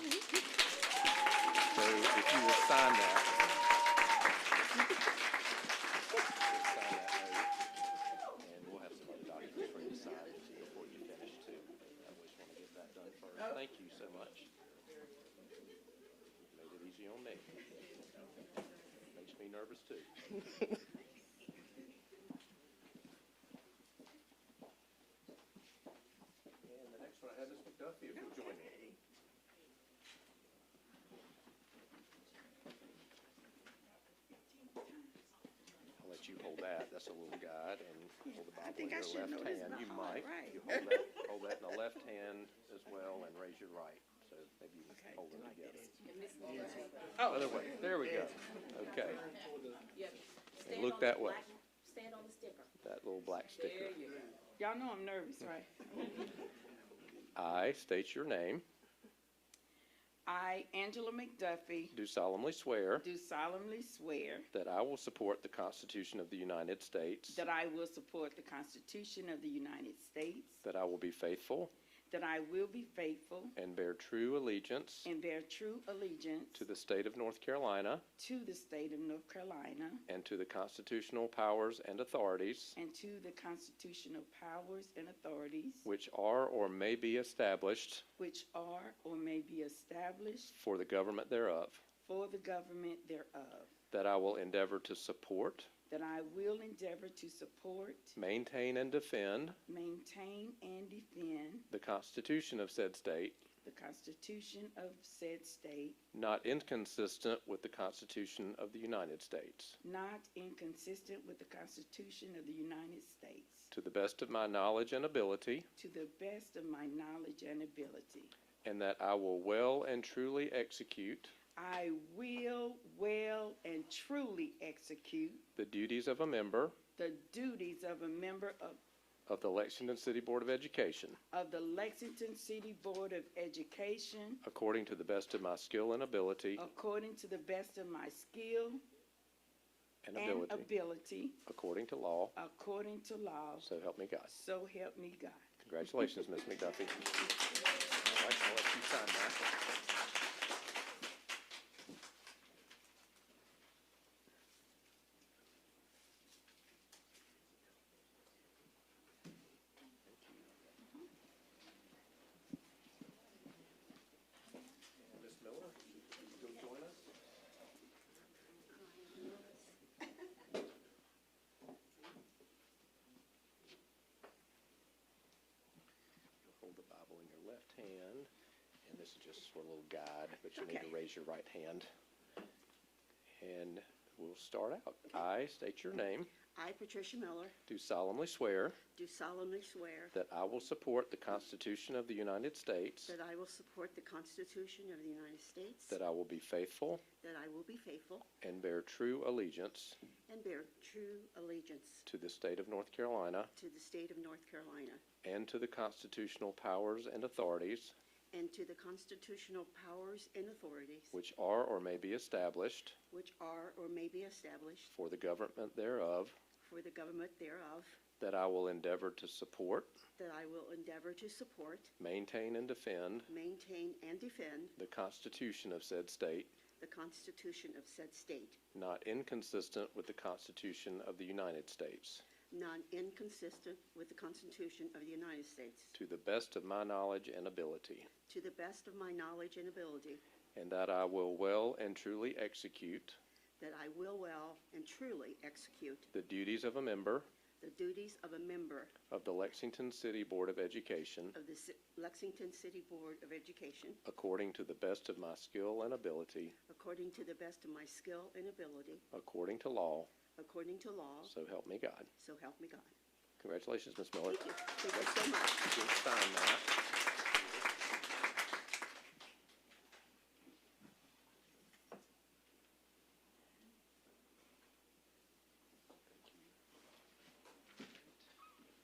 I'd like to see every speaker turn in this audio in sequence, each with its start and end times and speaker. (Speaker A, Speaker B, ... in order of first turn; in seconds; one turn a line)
Speaker A: 1.7-3.5
Speaker A: 6.5-7.5
Speaker A: 8.4-14.5
Speaker A: 16.5-17.5
Speaker A: 19.1-20.1
Speaker A: 26.6-28.9
Speaker B: 34.5-35.1
Speaker A: 36.0-45.9
Speaker B: 38.2-41.0
Speaker B: 44.9-46.1
Speaker C: 46.1-47.1
Speaker B: 47.2-47.6
Speaker A: 47.2-49.3
Speaker C: 50.0-52.7
Speaker A: 50.6-51.5
Speaker A: 52.8-54.2
Speaker C: 53.7-54.0
Speaker B: 54.6-56.3
Speaker A: 57.4-58.6
Speaker B: 60.3-62.0
Speaker A: 61.9-63.0
Speaker B: 63.0-64.5
Speaker A: 64.5-67.4
Speaker B: 67.3-70.6
Speaker A: 70.6-71.7
Speaker B: 72.1-73.6
Speaker A: 73.6-75.1
Speaker B: 75.0-76.7
Speaker A: 76.5-78.0
Speaker B: 78.2-80.0
Speaker A: 80.1-82.8
Speaker B: 82.8-85.9
Speaker A: 85.8-88.1
Speaker B: 88.2-90.5
Speaker A: 90.5-91.8
Speaker B: 92.0-93.7
Speaker A: 93.9-95.7
Speaker B: 95.9-98.2
Speaker A: 98.2-99.6
Speaker B: 99.7-101.7
Speaker A: 101.7-103.4
Speaker B: 103.6-106.0
Speaker A: 106.1-109.8
Speaker B: 109.8-113.7
Speaker A: 113.7-115.7
Speaker B: 115.8-118.3
Speaker A: 118.6-121.3
Speaker B: 121.5-125.5
Speaker A: 125.6-126.8
Speaker B: 127.0-128.8
Speaker A: 129.3-131.2
Speaker B: 131.3-134.4
Speaker A: 134.4-136.7
Speaker B: 136.6-138.8
Speaker A: 140.0-140.7
Speaker B: 140.1-141.4
Speaker A: 141.5-142.3
Speaker B: 142.3-143.7
Speaker A: 143.6-144.3
Speaker B: 144.3-145.4
Speaker A: 145.6-147.3
Speaker A: 147.9-149.5
Speaker A: 160.0-160.5
Speaker A: 165.0-167.1
Speaker D: 168.7-169.8
Speaker A: 176.4-178.3
Speaker A: 178.8-181.9
Speaker A: 183.4-186.3
Speaker D: 186.4-187.6
Speaker A: 187.7-188.8
Speaker D: 188.8-190.1
Speaker A: 190.1-193.2
Speaker D: 193.1-196.0
Speaker A: 195.9-197.1
Speaker D: 197.1-198.3
Speaker A: 198.4-200.0
Speaker D: 200.3-202.1
Speaker A: 202.1-203.5
Speaker D: 203.6-205.0
Speaker A: 205.2-207.9
Speaker D: 208.3-211.2
Speaker A: 211.1-213.0
Speaker D: 213.1-214.9
Speaker A: 214.9-216.4
Speaker D: 216.6-218.0
Speaker A: 218.2-219.9
Speaker D: 220.2-221.9
Speaker A: 222.0-223.3
Speaker D: 223.3-224.8
Speaker A: 224.8-226.5
Speaker D: 226.8-228.6
Speaker A: 228.7-232.3
Speaker D: 232.5-236.0
Speaker A: 235.9-238.1
Speaker D: 238.3-240.2
Speaker A: 240.6-243.2
Speaker D: 243.6-246.1
Speaker A: 246.1-247.3
Speaker D: 247.6-249.0
Speaker A: 249.1-251.3
Speaker D: 251.3-254.0
Speaker A: 254.1-256.6
Speaker D: 256.7-259.0
Speaker A: 259.1-260.1
Speaker D: 260.4-261.3
Speaker A: 261.3-262.1
Speaker D: 262.2-262.9
Speaker A: 263.4-266.8
Speaker D: 264.3-265.7
Speaker A: 276.1-276.5